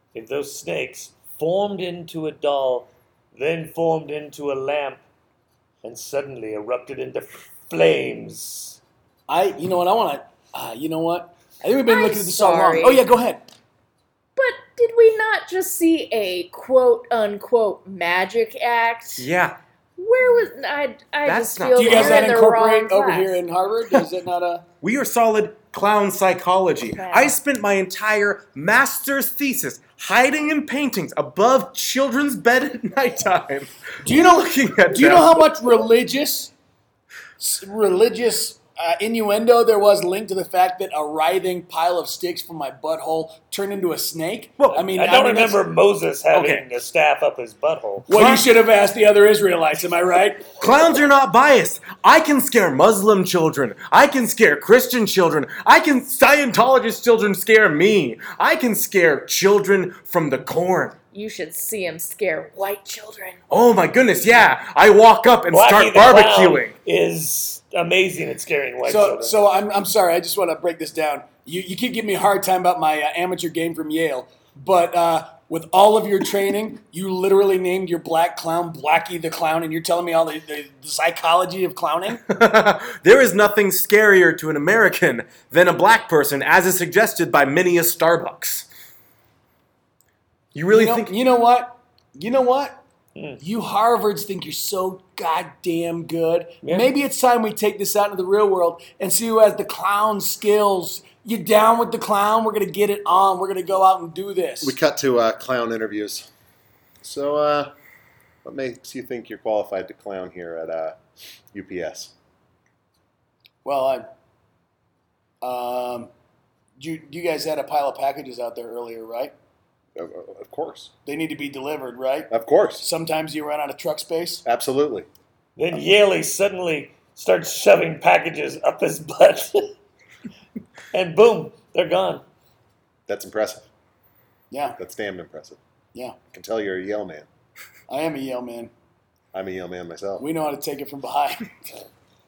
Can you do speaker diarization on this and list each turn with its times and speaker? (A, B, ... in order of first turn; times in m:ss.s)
0:00.1-0:05.0 A
0:05.8-0:08.8 A
0:09.3-0:13.4 B
0:11.9-0:13.0 C
0:14.4-0:19.3 C
0:19.2-0:19.6 D
0:20.0-0:23.4 C
0:21.2-0:22.3 D
0:21.8-0:24.6 B
0:24.8-0:35.6 D
0:26.9-0:27.4 C
0:34.0-0:36.5 B
0:37.4-0:45.6 B
0:44.9-0:48.1 A
0:46.3-0:46.6 D
0:48.1-0:50.5 B
0:48.1-0:48.5 D
0:50.6-1:01.0 D
1:01.1-1:03.4 C
1:03.5-1:06.7 D
1:05.5-1:09.4 A
1:08.8-1:22.2 B
1:22.3-1:28.7 D
1:30.5-1:31.1 D
1:30.7-1:32.8 B
1:33.4-1:44.8 B
1:36.6-1:36.9 A
1:44.6-1:46.3 E
1:47.0-1:47.7 E
1:48.4-1:51.0 E
1:51.5-1:52.1 E
1:53.6-1:54.1 B
1:55.4-1:56.1 B
1:56.8-1:59.3 B
2:00.0-2:00.9 E
2:01.1-2:04.4 B
2:02.3-2:02.8 E
2:04.4-2:05.1 E
2:05.6-2:09.7 A
2:10.9-2:12.2 A
2:13.1-2:13.7 E
2:14.5-2:14.8 B
2:14.8-2:15.6 E
2:16.3-2:17.3 E
2:17.9-2:18.7 B
2:19.3-2:20.2 E
2:20.2-2:21.5 B